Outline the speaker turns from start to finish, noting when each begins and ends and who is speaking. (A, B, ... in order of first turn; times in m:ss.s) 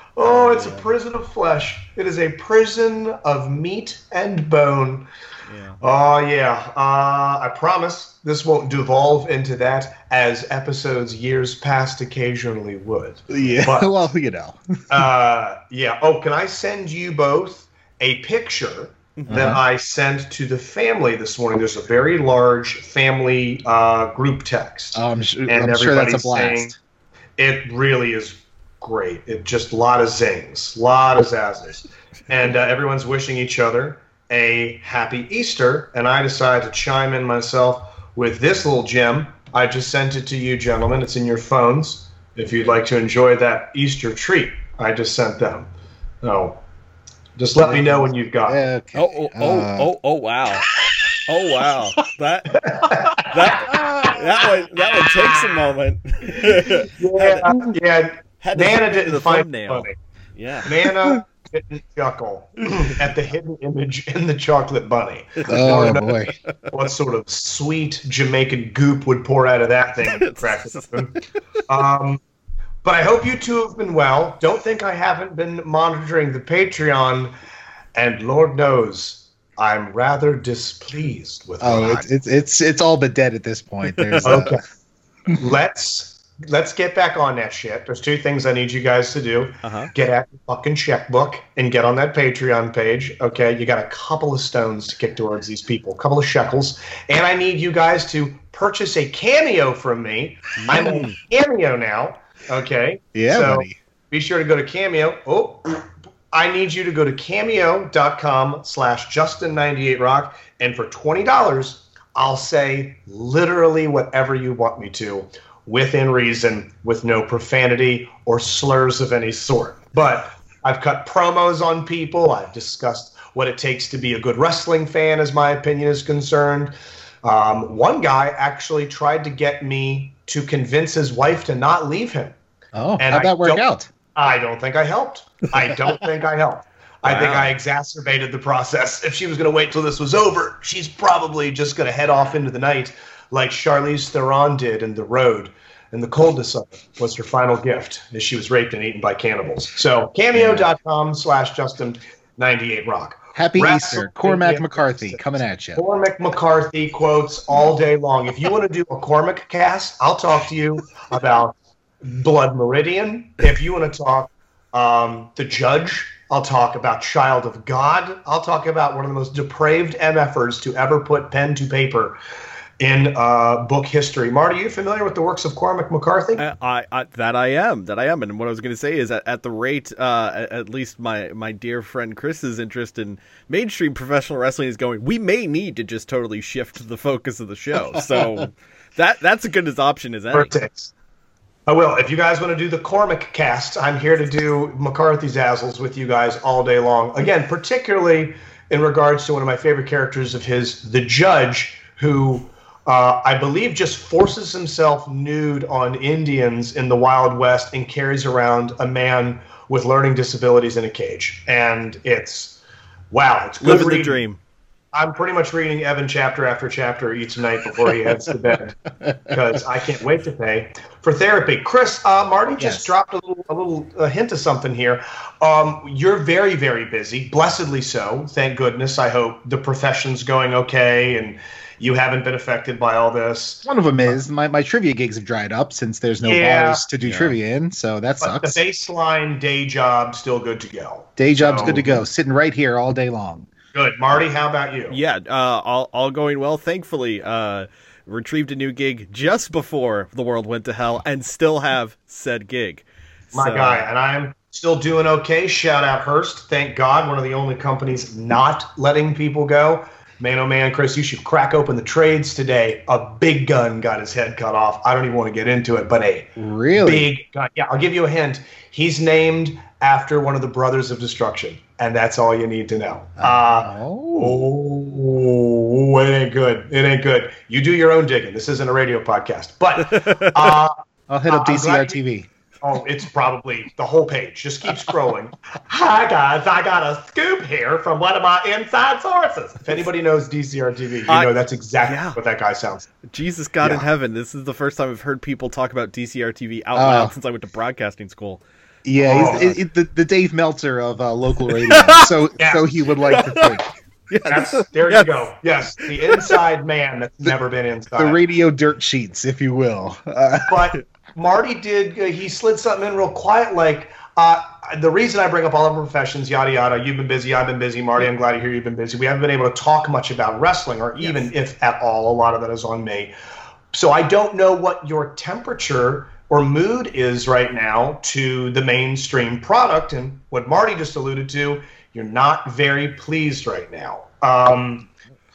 0:00.2-0:05.1 A
0:05.5-0:05.8 B
0:05.8-0:13.9 A
0:13.3-0:14.6 C
0:14.9-0:26.7 A
0:19.2-0:19.6 B
0:19.3-0:19.6 C
0:24.9-0:26.8 C
0:27.4-0:45.7 A
0:46.2-0:46.6 A
0:47.4-0:48.6 A
0:47.6-0:49.9 C
0:49.0-0:50.7 B
0:51.3-0:57.4 B
0:52.7-0:53.2 A
0:57.0-1:00.0 A
0:58.4-1:00.7 B
1:00.6-1:06.1 A
1:05.5-1:06.4 C
1:06.7-1:11.1 A
1:10.0-1:11.0 B
1:11.7-1:12.2 A
1:12.8-1:17.3 A
1:18.0-1:22.1 A
1:21.6-1:24.6 C
1:23.9-1:24.4 B
1:24.2-1:24.6 A
1:25.4-1:45.8 A
1:29.6-1:29.9 B
1:40.6-1:41.2 B
1:40.7-1:41.0 C
1:43.2-1:43.8 C
1:46.3-2:12.4 A
2:12.7-2:13.9 C
2:13.0-2:13.6 A
2:14.2-2:35.2 A
2:17.0-2:17.5 B
2:30.3-2:30.7 C
2:33.4-2:35.8 C
2:35.8-2:52.2 A
2:52.8-2:56.4 A
2:56.4-3:10.5 B
3:10.3-3:10.9 A
3:11.7-3:32.6 A
3:33.1-3:34.2 A
3:33.6-3:34.4 B
3:34.9-3:38.8 A
3:39.3-3:54.1 A
3:42.6-3:42.9 C
3:53.6-3:58.6 C
3:56.2-3:56.8 A
3:57.0-3:57.4 B
3:58.2-4:01.8 A
4:01.2-4:03.5 C
4:03.7-4:05.0 A
4:04.9-4:13.9 B
4:13.3-4:40.8 A
4:26.4-4:27.1 C
4:33.2-4:34.4 C
4:39.9-4:40.5 B
4:41.1-4:42.3 C
4:41.3-4:42.0 A
4:42.6-4:52.9 A
4:51.1-4:52.2 B
4:53.1-4:58.4 B
4:56.7-4:57.1 C
4:58.8-5:03.7 C
4:59.0-4:59.5 A
5:01.5-5:02.1 B
5:03.1-5:03.6 B
5:04.1-5:05.2 B
5:04.3-5:08.2 A
5:08.0-5:10.6 C
5:10.5-5:23.1 A
5:23.7-5:34.9 A